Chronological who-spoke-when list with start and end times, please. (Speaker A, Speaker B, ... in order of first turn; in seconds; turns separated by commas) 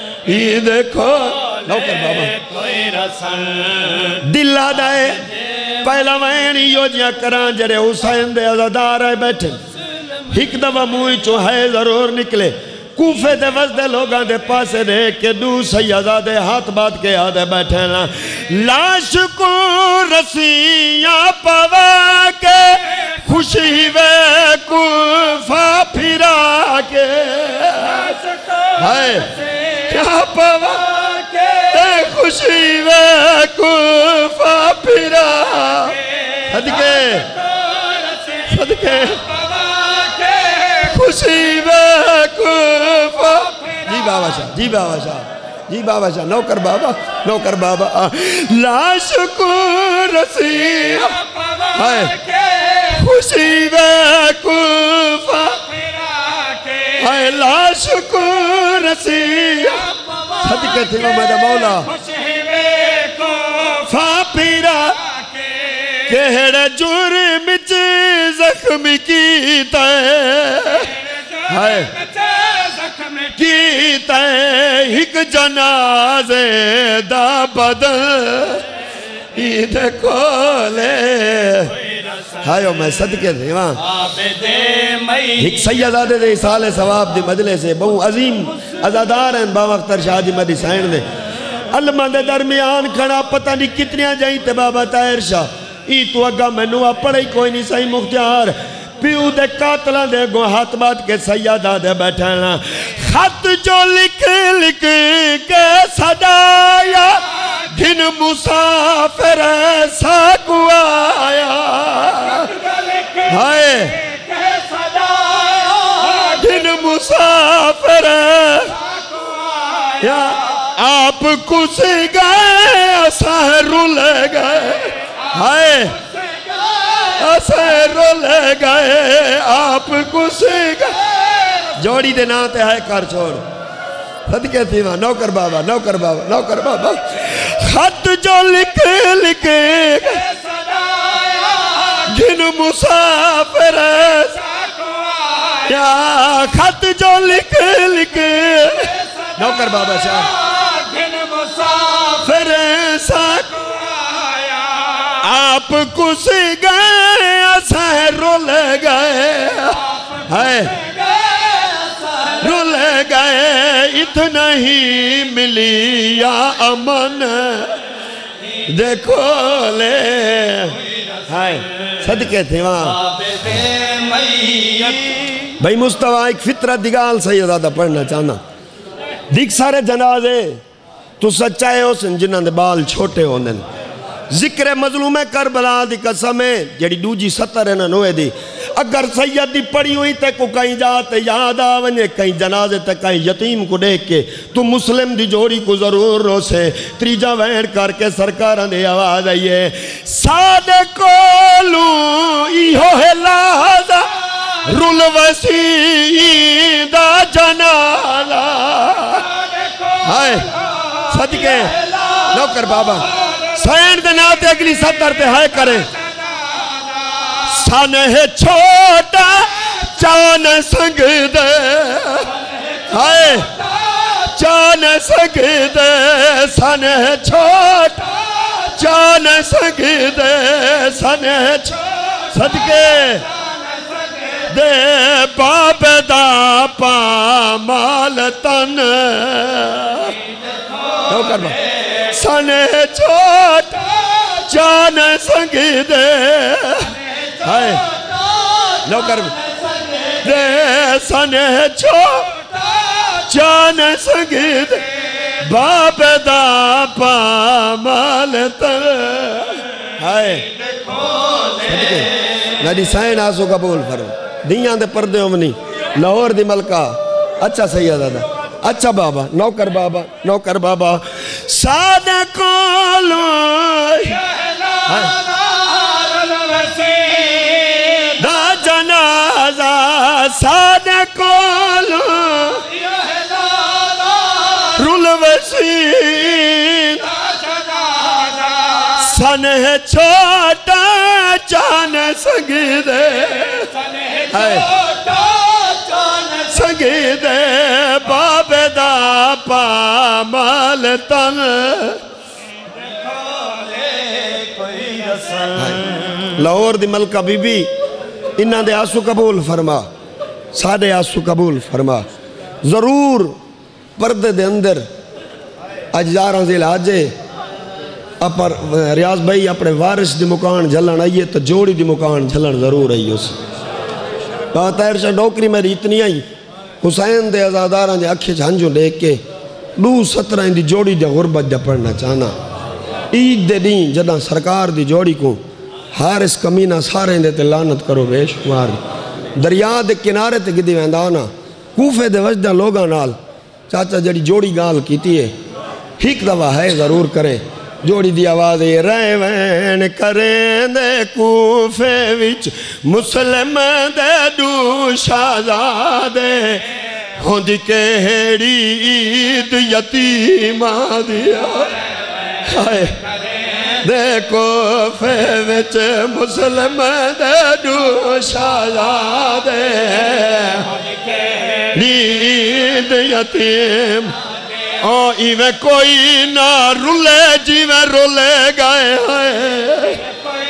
Speaker A: 0.2-2.4, Speaker B: 2.7-4.0, Speaker A: 4.1-9.6, Speaker A: 10.3-37.4, Speaker A: 38.3-39.4, Speaker B: 40.0-40.4, Speaker A: 40.5-55.8, Speaker A: 56.9-62.0, Speaker B: 62.1-63.5, Speaker A: 63.5-65.1, Speaker A: 65.9-72.0, Speaker B: 72.2-73.1, Speaker A: 73.2-78.6, Speaker A: 79.3-81.8, Speaker A: 82.4-83.9, Speaker B: 84.2-85.3, Speaker A: 85.3-91.1, Speaker A: 91.7-114.2, Speaker B: 114.6-115.6, Speaker A: 115.7-118.8, Speaker A: 119.9-126.0, Speaker A: 126.8-133.4, Speaker A: 134.3-140.3, Speaker B: 140.9-141.3, Speaker A: 141.7-144.6, Speaker A: 145.5-150.3, Speaker B: 150.6-151.8, Speaker A: 151.9-153.7, Speaker A: 155.0-160.9, Speaker A: 162.2-167.8, Speaker A: 168.7-173.1, Speaker B: 173.6-175.2, Speaker A: 175.5-178.4, Speaker A: 179.3-180.6, Speaker A: 181.2-183.6, Speaker A: 184.3-209.4, Speaker A: 209.9-215.9, Speaker A: 217.3-233.3, Speaker A: 234.4-240.2, Speaker A: 241.1-247.9, Speaker A: 248.7-249.4, Speaker A: 250.1-260.5, Speaker A: 261.5-275.3, Speaker B: 275.7-277.7, Speaker A: 277.8-282.7, Speaker A: 284.3-287.2, Speaker A: 288.6-295.0, Speaker B: 295.0-296.1, Speaker A: 296.2-302.0, Speaker B: 303.7-305.4, Speaker A: 305.5-307.7, Speaker A: 308.4-309.9, Speaker A: 310.5-312.1, Speaker A: 312.6-313.4, Speaker A: 314.0-314.9, Speaker A: 315.9-317.1, Speaker A: 318.2-323.4, Speaker A: 324.5-326.2, Speaker A: 326.8-329.2, Speaker A: 329.8-332.3, Speaker A: 333.1-335.4, Speaker A: 335.9-338.8, Speaker A: 339.4-343.1, Speaker A: 343.7-345.3, Speaker A: 346.0-361.8, Speaker A: 362.4-363.0, Speaker A: 363.7-370.9, Speaker A: 371.6-374.2, Speaker A: 374.8-380.1